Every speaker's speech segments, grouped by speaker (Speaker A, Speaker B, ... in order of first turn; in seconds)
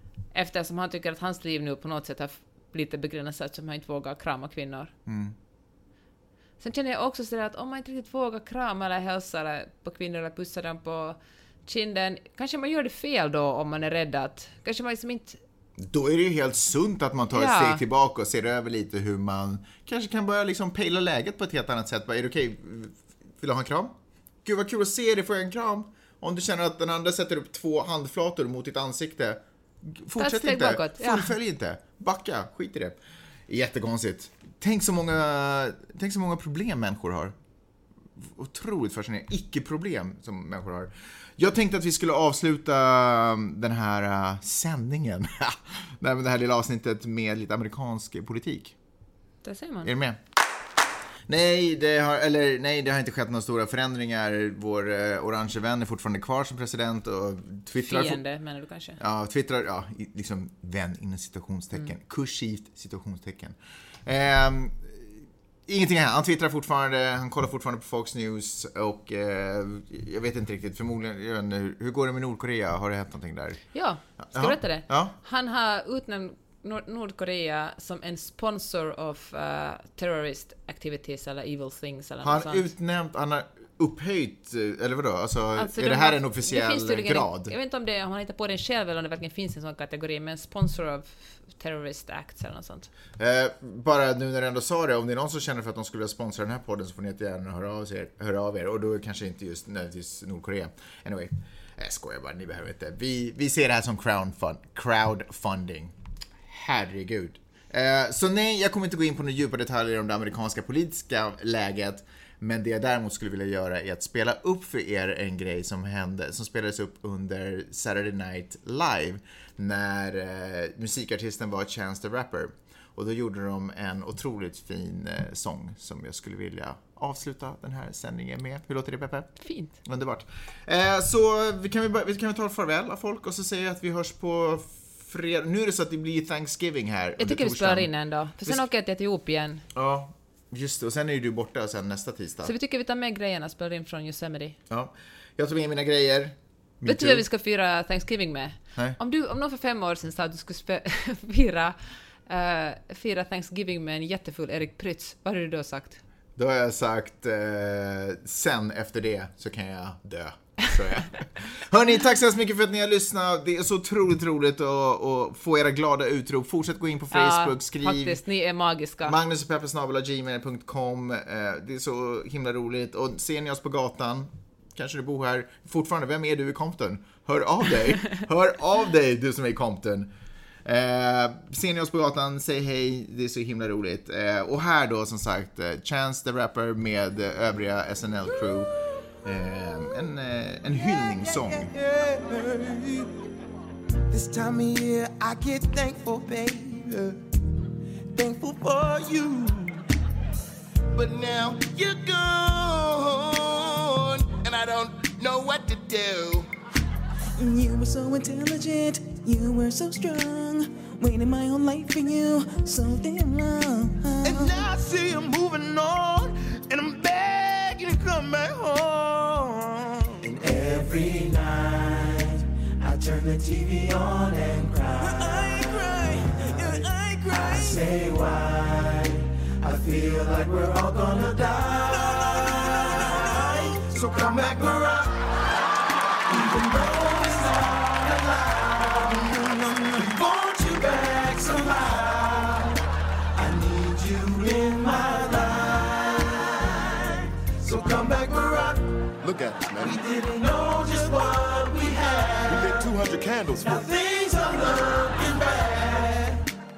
Speaker A: 0.3-4.9, 6.6-15.4, 17.3-17.8, 30.2-31.3, 49.4-49.9, 57.8-59.0, 73.7-82.7, 85.6-92.9, 129.4-129.7, 137.2-139.6, 142.4-144.6, 146.8-156.0, 167.1-169.2
Speaker B: 5.1-5.3, 15.8-33.0, 33.5-37.3, 38.2-48.7, 49.8-50.2, 51.3-58.2, 59.0-73.6, 74.2-75.1, 82.2-87.5, 93.2-105.9, 106.4-137.9, 139.7-142.5, 144.7-147.2, 156.3-168.2, 169.0-180.1, 180.6-188.7, 189.2-191.7
Speaker C: 190.8-193.1, 194.1-197.1, 198.2-199.8, 200.9-206.5, 214.2-225.7, 226.4-226.8, 227.3-235.3, 236.3-242.8, 243.3-249.1, 249.8-252.9, 253.6-256.4
Speaker D: 207.3-214.7, 225.0-227.9, 231.9-233.7
Speaker E: 249.2-250.0, 252.5-253.9